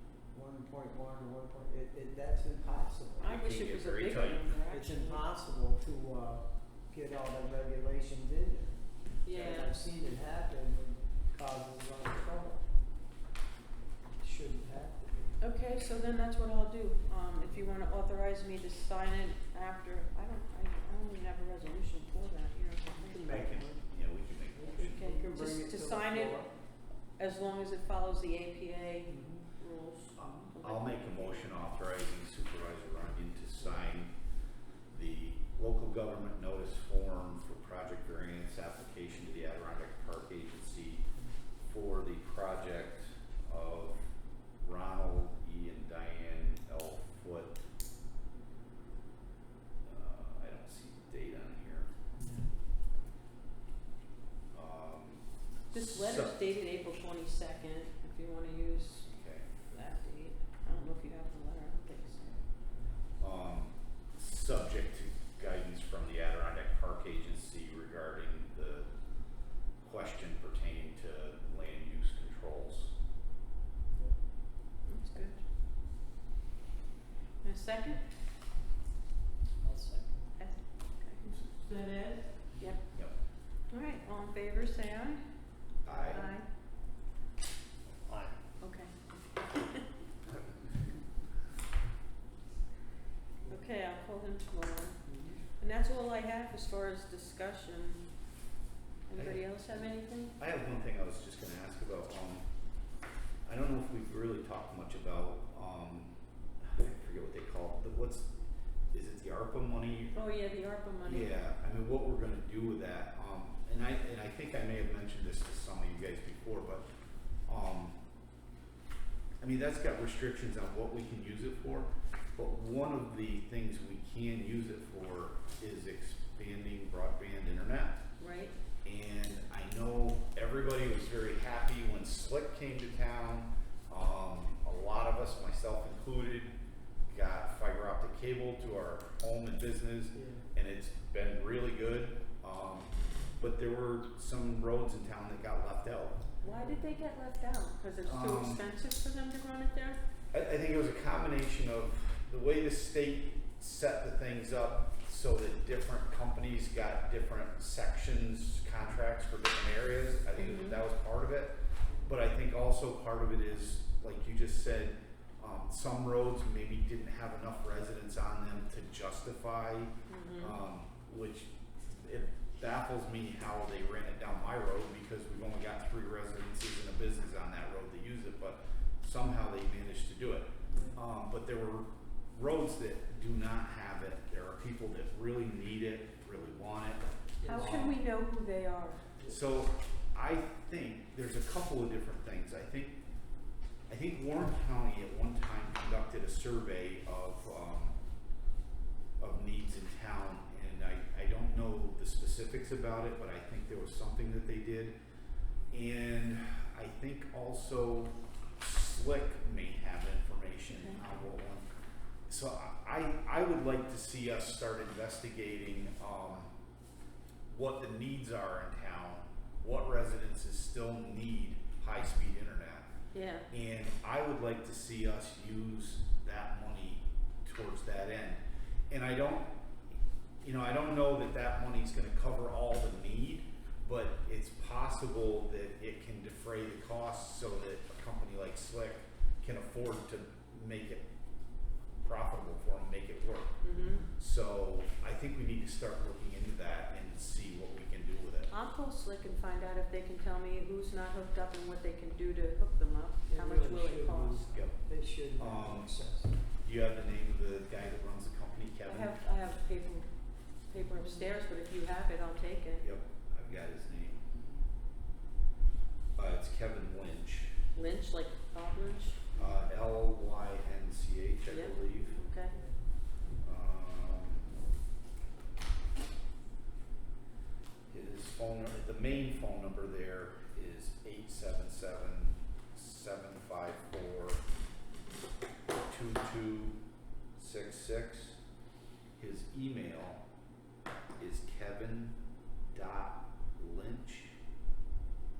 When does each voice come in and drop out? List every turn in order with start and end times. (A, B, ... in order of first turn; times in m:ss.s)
0:00.3-0:03.4 A
0:03.2-0:05.2 B
0:03.2-0:04.6 C
0:04.7-0:12.6 A
0:09.2-0:09.8 B
0:14.2-0:15.4 A
0:15.4-0:23.5 B
0:22.9-0:23.8 A
0:23.3-0:25.0 C
0:24.5-0:26.5 A
0:24.7-0:26.4 B
0:27.2-0:31.5 B
0:29.1-0:29.5 A
0:30.2-0:34.1 C
0:34.9-0:41.0 C
0:41.6-0:44.0 C
0:44.6-0:47.6 C
0:49.8-0:51.9 C
0:52.2-0:52.5 A
0:54.5-0:55.2 C
0:55.7-0:59.1 B
0:55.8-0:56.4 C
0:59.1-0:59.5 C
0:59.7-1:02.3 B
1:03.2-1:08.9 C
1:09.8-1:12.9 C
1:13.9-1:14.2 A
1:14.9-1:15.4 B
1:17.4-1:18.0 B
1:19.6-1:20.3 A
1:20.4-1:22.8 B
1:23.7-1:25.2 B
1:25.8-1:26.3 C
1:26.0-1:26.4 B
1:28.1-1:28.4 A
1:28.6-1:29.9 B
1:33.5-1:35.1 B
1:35.1-1:35.4 A
1:35.6-1:38.1 B
1:39.1-1:40.4 B
1:39.2-1:39.5 C
1:40.4-1:42.4 C
1:43.5-1:48.3 C
1:48.9-1:50.1 C
1:50.1-1:51.3 B
1:51.0-1:56.8 C
1:57.5-1:58.0 C
1:59.4-2:08.0 C
2:08.2-2:08.5 B
2:08.8-2:16.5 C
2:17.1-2:26.2 C
2:20.1-2:20.4 A
2:26.4-2:26.9 A
2:26.4-2:30.0 B
2:28.0-2:28.6 C
2:30.3-3:08.0 C
2:40.4-2:40.8 B
2:50.1-2:50.6 B
3:00.7-3:01.0 A
3:07.4-3:07.8 A
3:07.5-3:09.0 B
3:09.3-3:13.0 C
3:13.9-3:18.0 C
3:19.2-3:25.0 C
3:25.7-3:31.7 C
3:30.7-3:31.0 B
3:32.3-3:36.5 C
3:37.5-3:42.9 C
3:43.1-3:43.5 B
3:43.5-3:49.5 C
3:50.4-4:01.0 C
4:02.0-4:03.6 C
4:03.6-4:04.0 B
4:03.7-4:04.1 A
4:04.2-4:08.5 C
4:08.5-4:14.5 B
4:13.3-4:16.4 A
4:14.5-4:14.8 C
4:15.4-4:15.9 C
4:16.6-4:19.2 C
4:18.8-4:20.1 B
4:20.7-4:22.9 B
4:21.0-4:21.3 A
4:22.8-4:24.2 C
4:26.2-4:27.6 C
4:27.7-4:29.3 B
4:29.4-4:29.6 A
4:29.4-4:32.2 C
4:31.5-4:32.6 B
4:32.5-4:32.8 A
4:33.4-4:34.5 C
4:37.9-4:44.4 C
4:45.9-4:46.8 C
4:47.4-4:48.4 C
4:49.2-4:50.2 C
4:51.2-4:52.2 C
4:52.7-4:54.4 C